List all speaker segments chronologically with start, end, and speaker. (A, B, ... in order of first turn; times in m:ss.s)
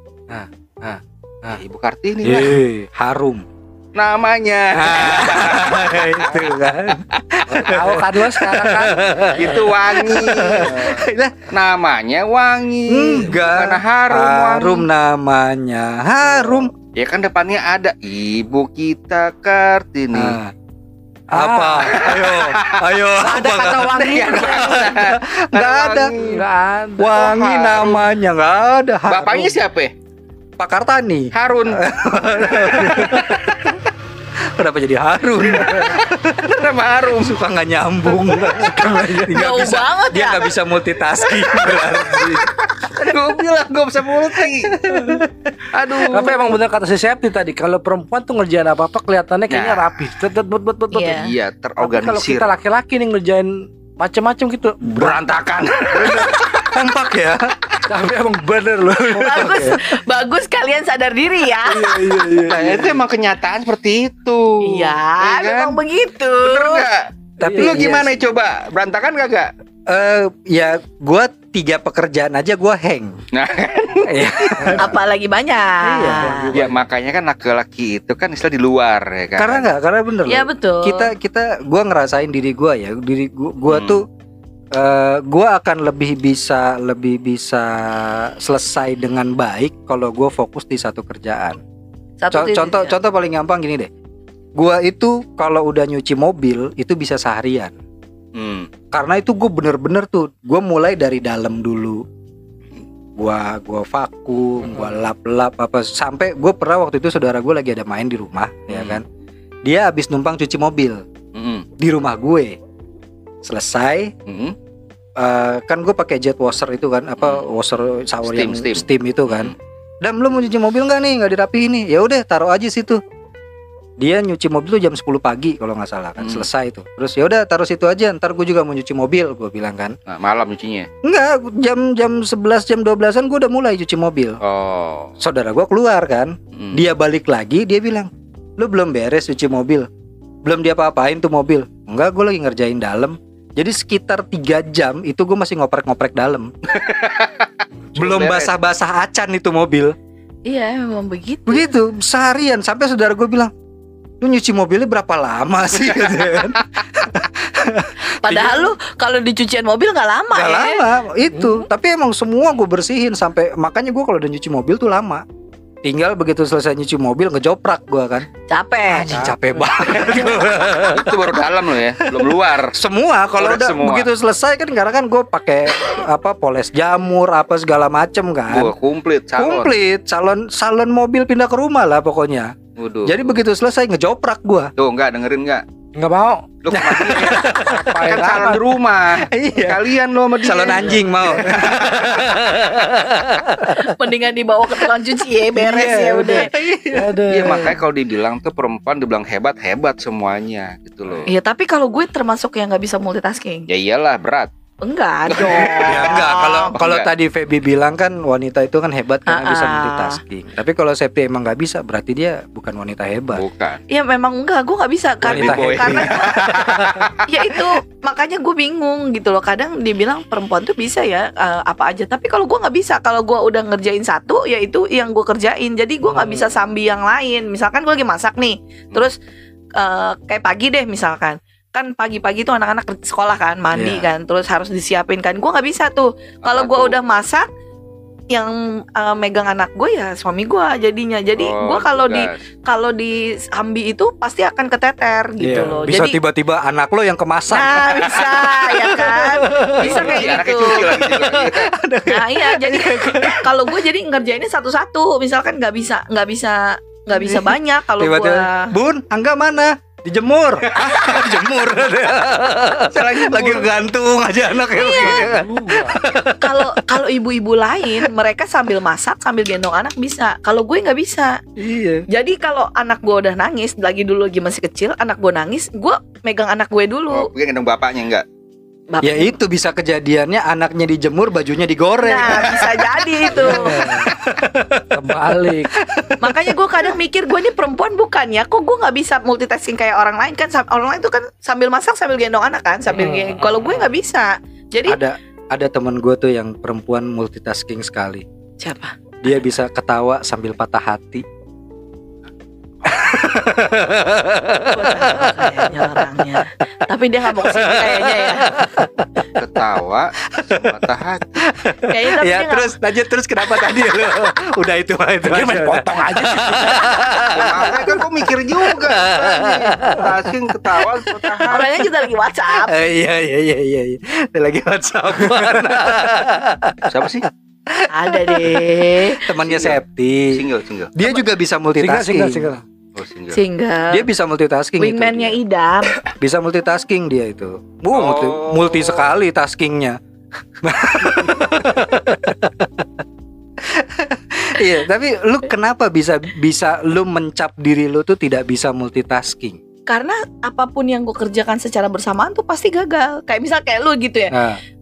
0:00.3-0:01.6 A
0:01.6-0:02.6 B
0:02.2-0:03.4 C
0:04.0-0:07.2 B
0:04.7-0:11.3 C
0:07.5-0:09.5 A
0:09.4-0:14.9 B
0:12.9-0:16.7 C
0:17.0-0:20.4 B
0:20.1-0:20.5 C
0:21.3-0:26.2 C
0:21.3-0:22.0 A
0:21.9-0:22.9 B
0:23.2-0:24.9 A
0:23.5-0:26.4 B
0:26.2-0:27.3 A
0:27.0-0:29.6 C
0:27.1-0:28.0 B
0:29.1-0:29.9 B
0:30.6-0:33.7 C
0:31.3-0:31.8 B
0:32.6-0:33.7 B
0:34.6-0:36.6 C
0:35.4-0:37.4 B
0:37.2-0:42.5 C
0:38.4-0:39.4 A
0:39.3-0:40.5 D
0:41.3-0:44.8 B
0:44.4-0:45.6 C
0:45.7-0:46.6 B
0:46.1-0:51.2 A
0:49.5-0:50.0 B
0:50.9-0:51.3 D
0:51.1-0:52.5 B
0:51.8-0:55.2 A
0:54.9-0:56.6 B
0:55.9-0:57.6 C
0:57.9-0:59.7 A
0:59.0-0:59.8 C
0:59.1-1:02.0 D
1:01.7-1:03.0 A
1:02.4-1:05.8 B
1:04.6-1:06.9 D
1:06.4-1:07.1 B
1:07.4-1:07.9 A
1:07.4-1:08.2 C
1:07.6-1:09.5 B
1:09.9-1:13.2 C
1:13.3-1:14.7 B
1:14.1-1:15.0 C
1:14.8-1:16.5 D
1:15.8-1:16.6 C
1:16.1-1:16.8 A
1:16.6-1:19.7 B
1:19.4-1:24.1 C
1:20.3-1:21.1 D
1:23.7-1:24.0 B
1:24.7-1:31.6 C
1:32.2-1:33.0 D
1:32.3-1:33.9 C
1:34.6-1:37.7 C
1:38.4-1:38.7 B
1:38.9-1:42.0 C
1:43.2-1:49.0 C
1:48.7-1:49.0 B
1:49.6-1:51.0 C
1:51.4-1:51.7 B
1:51.8-1:52.6 C
1:53.4-1:54.1 C
1:54.3-1:54.6 B
1:55.2-2:03.0 C
1:57.2-1:57.4 B
1:58.3-1:59.6 B
2:04.0-2:10.0 C
2:06.2-2:06.5 B
2:10.1-2:10.9 B
2:11.0-2:14.4 C
2:14.4-2:15.1 B
2:15.2-2:19.9 C
2:16.5-2:16.8 B
2:20.4-2:26.5 C
2:26.7-2:28.5 B
2:28.0-2:29.9 C
2:30.5-2:31.7 D
2:31.5-2:33.5 C
2:34.2-2:38.8 C
2:38.2-2:40.8 D
2:40.3-2:45.2 C
2:41.3-2:41.7 A
2:45.8-2:48.3 C
2:48.5-2:49.2 D
2:49.0-2:49.6 A
2:49.1-2:51.2 C
2:49.8-2:50.2 D
2:49.9-2:52.8 B
2:52.7-2:58.7 C
2:53.4-2:54.1 B
2:58.5-2:59.7 B
2:59.4-3:04.7 C
3:02.8-3:03.4 B
3:04.8-3:05.6 B
3:06.0-3:06.6 A
3:06.6-3:12.4 B
3:06.7-3:07.9 C
3:07.5-3:08.6 A
3:09.3-3:09.8 C
3:10.4-3:11.1 D
3:10.4-3:13.9 C
3:13.8-3:16.5 D
3:15.5-3:17.6 C
3:16.9-3:17.8 A
3:17.3-3:21.3 B
3:21.3-3:23.7 D
3:23.7-3:24.5 B
3:24.8-3:26.7 D
3:25.3-3:27.1 B
3:25.8-3:33.4 C
3:29.3-3:30.2 D
3:33.3-3:33.8 B
3:33.9-3:36.5 D
3:35.2-3:37.2 B
3:35.3-3:37.0 C
3:37.3-3:49.2 D
3:46.1-3:46.5 A
3:49.8-3:57.5 D
3:53.7-3:54.1 C
3:56.4-3:57.0 B
3:58.3-4:06.2 D
4:01.4-4:02.4 B
4:05.4-4:13.8 C
4:05.5-4:05.8 A
4:07.5-4:10.8 D
4:09.8-4:11.7 B
4:12.1-4:18.7 D
4:17.1-4:26.8 C
4:20.7-4:21.2 B
4:22.9-4:23.7 B
4:24.7-4:25.3 D
4:24.8-4:26.0 A
4:26.4-4:31.4 D
4:31.6-4:32.1 C
4:32.1-4:37.3 D
4:37.1-4:38.2 B
4:38.9-4:39.4 D
4:39.0-4:46.9 C
4:42.0-4:43.9 D
4:43.4-4:44.1 A
4:44.9-4:45.7 A
4:46.2-4:55.0 D
4:52.9-4:53.9 A
4:54.9-4:58.2 C
4:58.6-4:59.0 D
4:59.2-5:01.2 C
5:02.8-5:06.2 C
5:04.7-5:08.7 D
5:07.3-5:09.1 C
5:09.4-5:11.4 B
5:10.3-5:10.8 C
5:11.4-5:21.8 C
5:11.9-5:12.7 D
5:15.3-5:17.0 A
5:17.3-5:21.6 B
5:21.5-5:22.8 D
5:22.6-5:26.9 C
5:26.9-5:27.3 B
5:27.7-5:32.5 C
5:27.9-5:29.2 D
5:29.4-5:31.0 B
5:31.8-5:32.6 A
5:33.0-5:33.4 B
5:33.3-5:34.1 D
5:33.9-5:35.4 C
5:34.8-5:36.0 D
5:36.1-5:40.0 C
5:37.9-5:39.1 B
5:40.6-5:42.9 C
5:43.6-5:49.6 C
5:49.9-5:54.4 D
5:54.3-5:54.6 C